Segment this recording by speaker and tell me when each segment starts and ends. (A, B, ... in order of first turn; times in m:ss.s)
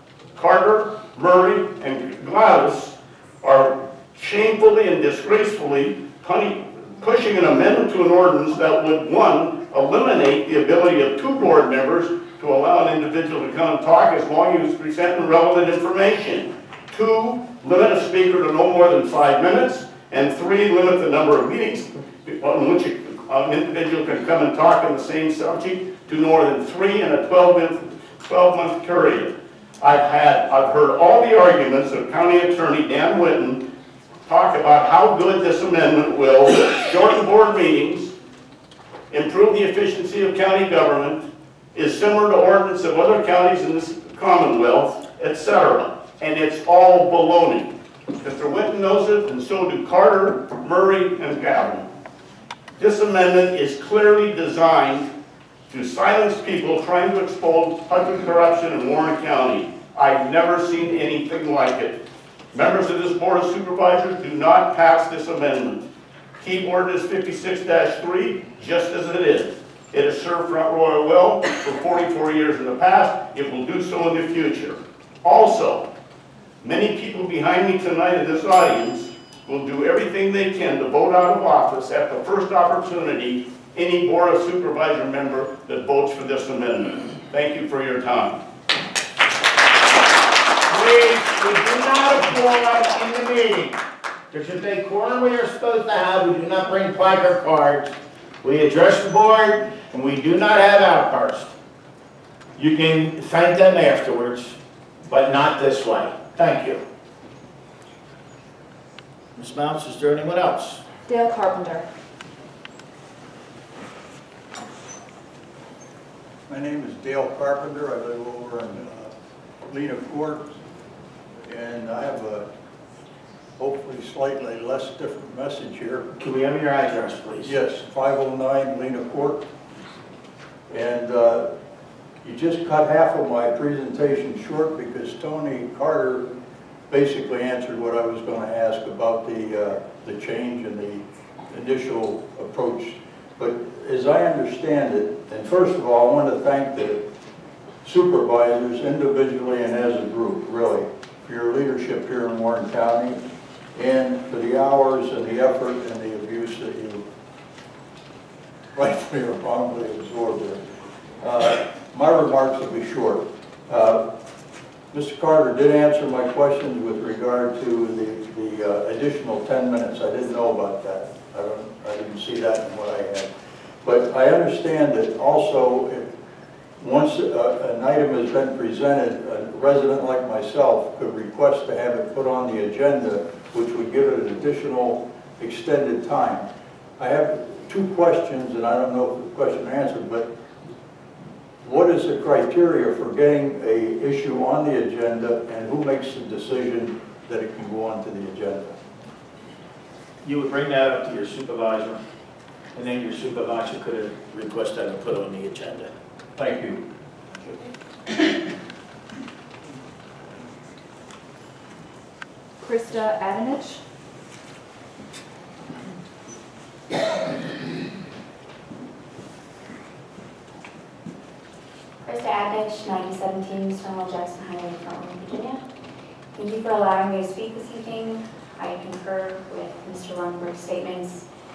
0:00.4-0:33.6 A
0:34.2-0:38.1 A
0:39.1-0:51.9 A
0:52.8-0:55.1 A
0:55.7-1:02.0 A
1:02.5-1:05.8 A
1:06.4-1:15.9 A
1:16.6-1:28.4 A
1:30.7-1:33.8 B
1:34.3-1:41.5 B
1:42.6-1:46.8 B
1:49.4-1:50.8 B
1:51.0-1:51.8 C
1:56.5-1:59.1 D
1:59.7-2:00.5 D
2:01.4-2:02.4 D
2:03.6-2:06.1 D
2:06.2-2:07.5 B
2:07.4-2:09.4 D
2:10.7-2:11.5 D
2:12.2-2:16.3 D
2:16.9-2:27.0 D
2:27.8-2:33.2 D
2:33.7-2:37.0 D
2:38.7-2:40.6 D
2:41.2-2:44.0 D
2:44.9-2:53.3 D
2:53.8-2:56.1 D
2:56.8-3:10.3 D
3:11.6-3:18.8 D
3:20.2-3:22.0 B
3:22.7-3:26.8 B
3:32.6-3:33.8 C
3:42.0-3:45.6 E
3:46.4-3:51.2 E